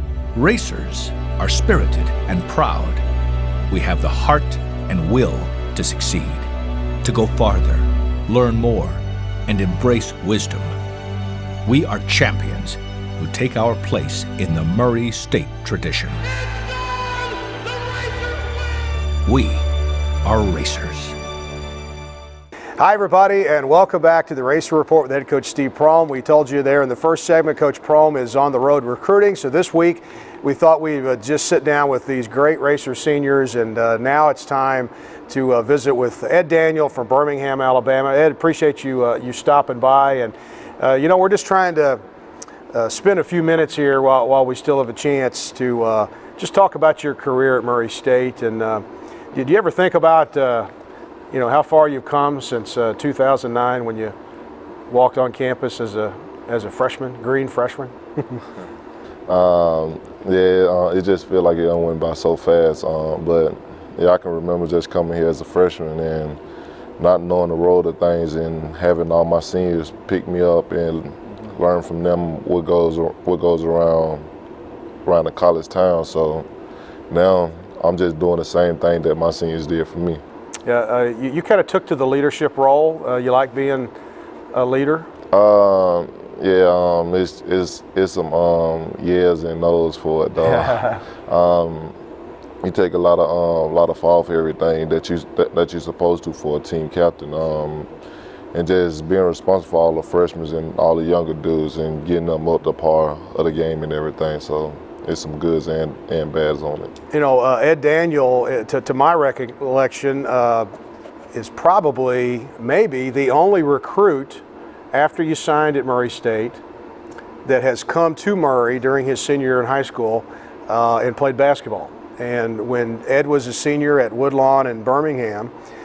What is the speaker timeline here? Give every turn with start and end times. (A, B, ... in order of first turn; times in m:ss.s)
0:00.3-0:03.0 A
0:03.7-0:06.5 A
0:07.0-0:10.7 A
0:11.6-0:16.2 A
0:19.2-0:19.6 A
0:20.2-0:21.1 A
0:22.8-0:42.0 B
0:42.7-0:50.7 B
0:51.3-0:54.1 B
0:54.9-0:58.4 B
0:59.3-1:06.4 C
1:07.0-1:14.3 C
1:15.0-1:16.5 C
1:17.1-1:20.2 C
1:20.6-1:23.9 B
1:24.5-1:25.1 B
1:25.3-1:32.0 C
1:30.4-1:31.0 B
1:32.6-1:37.9 C
1:38.5-1:46.9 C
1:47.1-1:50.7 B
1:51.3-1:56.6 B
1:57.4-2:05.5 B